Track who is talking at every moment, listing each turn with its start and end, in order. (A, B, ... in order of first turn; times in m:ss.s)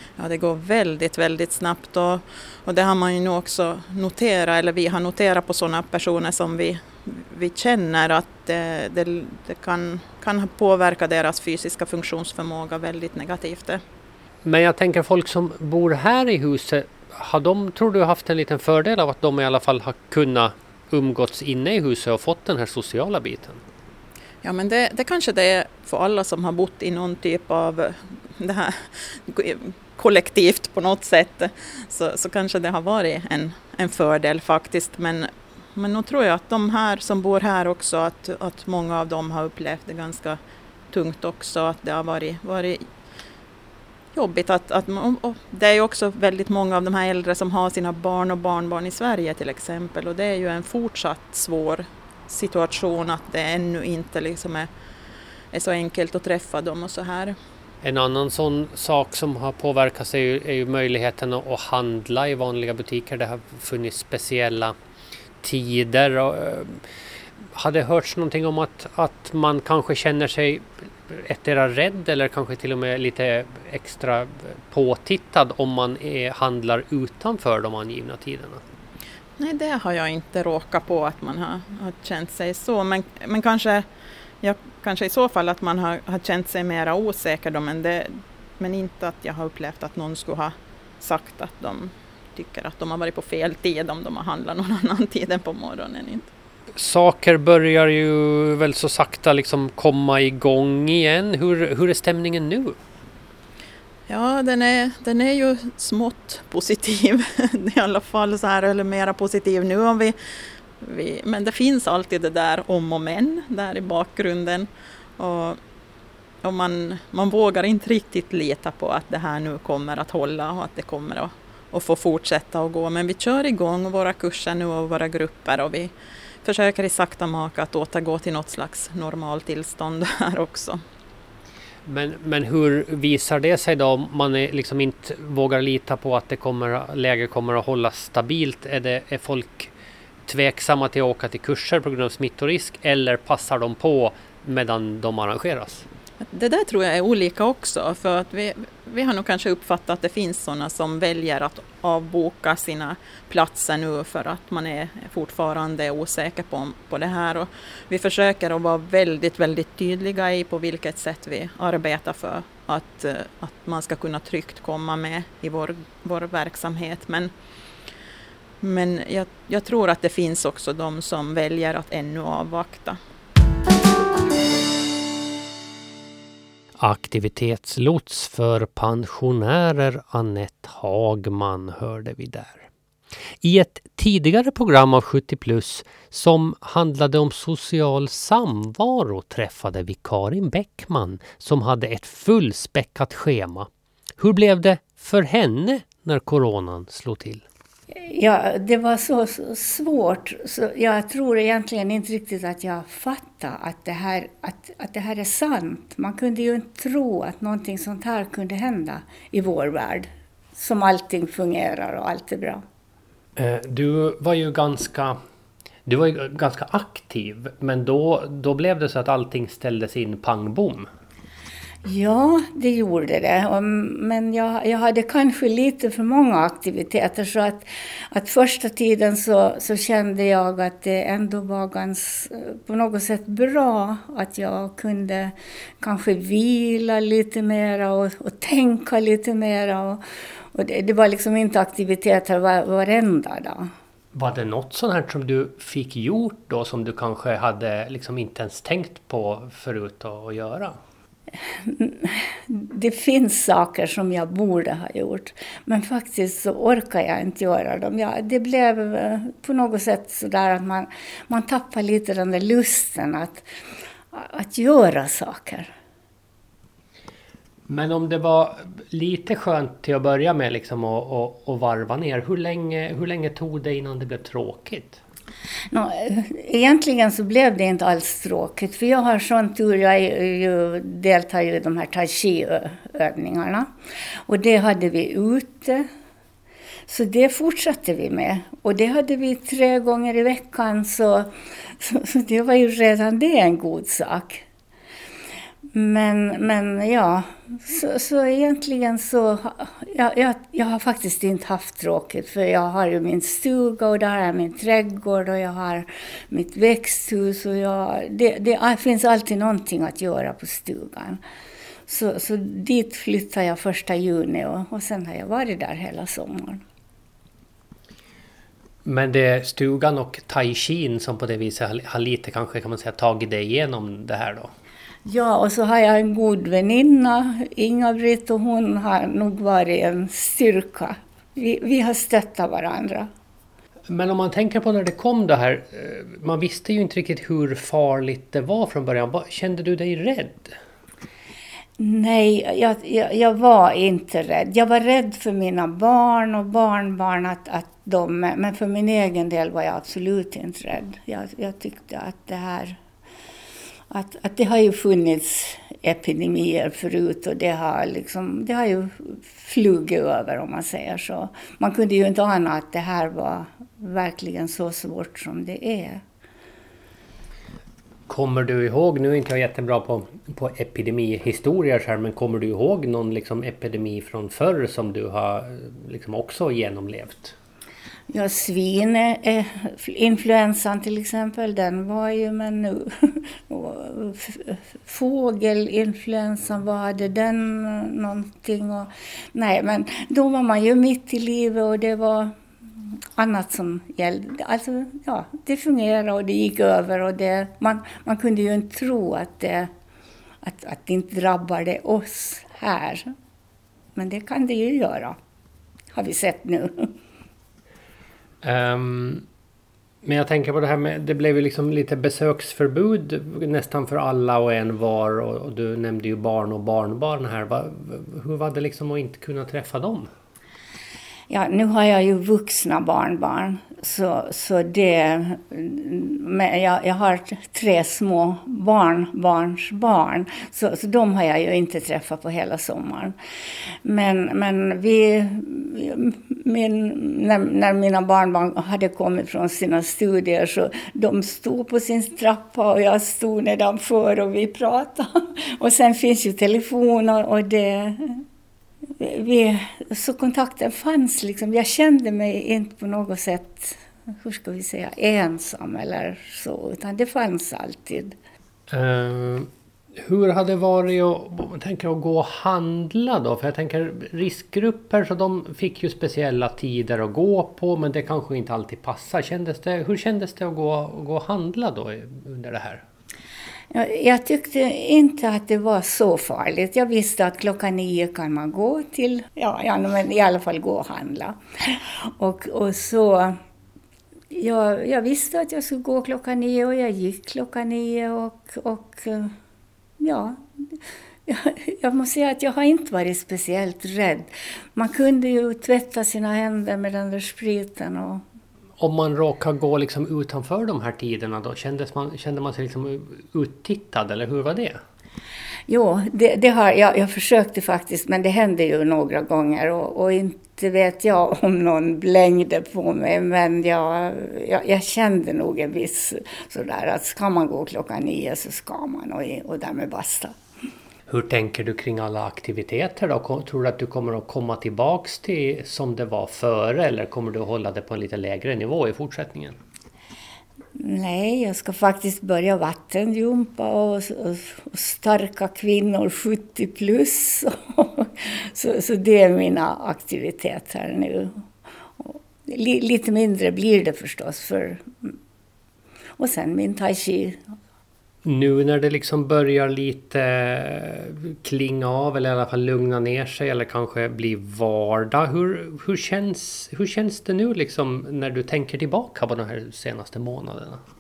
0:00.2-0:13.8 A
0:14.4-0:23.6 B
0:24.4-0:40.4 A
0:40.9-0:42.8 A
0:44.1-0:54.7 A
0:55.5-0:57.4 A
0:57.8-1:04.8 B
1:05.4-1:06.9 B
1:07.5-1:18.6 B
1:19.4-1:23.9 A
1:24.4-1:36.3 A
1:36.8-1:42.8 B
1:44.1-1:50.2 A
1:50.8-1:55.6 A
1:56.4-2:10.8 A
2:11.8-2:19.7 B
2:20.2-2:25.9 B
2:26.3-2:47.3 A
2:48.6-2:53.0 A
2:56.8-3:02.7 B
3:03.4-3:17.4 B
3:17.9-3:32.6 C
3:33.4-3:35.2 B
3:35.9-3:40.9 B
3:41.8-4:03.7 C
4:04.1-4:10.8 B
4:11.6-4:23.4 C
4:24.1-4:25.7 C
4:27.7-4:35.0 B
4:35.7-4:43.7 C
4:44.3-4:45.9 C
4:46.9-4:54.4 C
4:55.7-5:11.2 C
5:11.9-5:16.6 C
5:18.8-5:24.5 B
5:25.1-5:33.1 C
5:33.9-5:40.6 B
5:41.8-5:52.8 C
5:53.9-6:06.0 C
6:08.1-6:17.4 B
6:18.1-6:39.7 C
6:40.4-6:43.1 C
6:44.0-6:45.2 C
6:45.9-6:46.9 C
6:48.4-6:49.2 B
6:50.0-7:00.1 B
7:01.3-7:13.2 C
7:13.8-7:28.2 C
7:29.0-7:38.2 C
7:38.7-7:52.8 B
7:53.7-8:03.4 C
8:04.3-8:09.3 C
8:10.0-8:10.4 C
8:11.3-8:18.2 C
8:18.8-8:24.8 B
8:25.7-8:40.3 C
8:41.1-8:49.6 B
8:50.8-9:01.4 C
9:02.0-9:05.1 C
9:06.2-9:07.4 C
9:08.2-9:20.8 B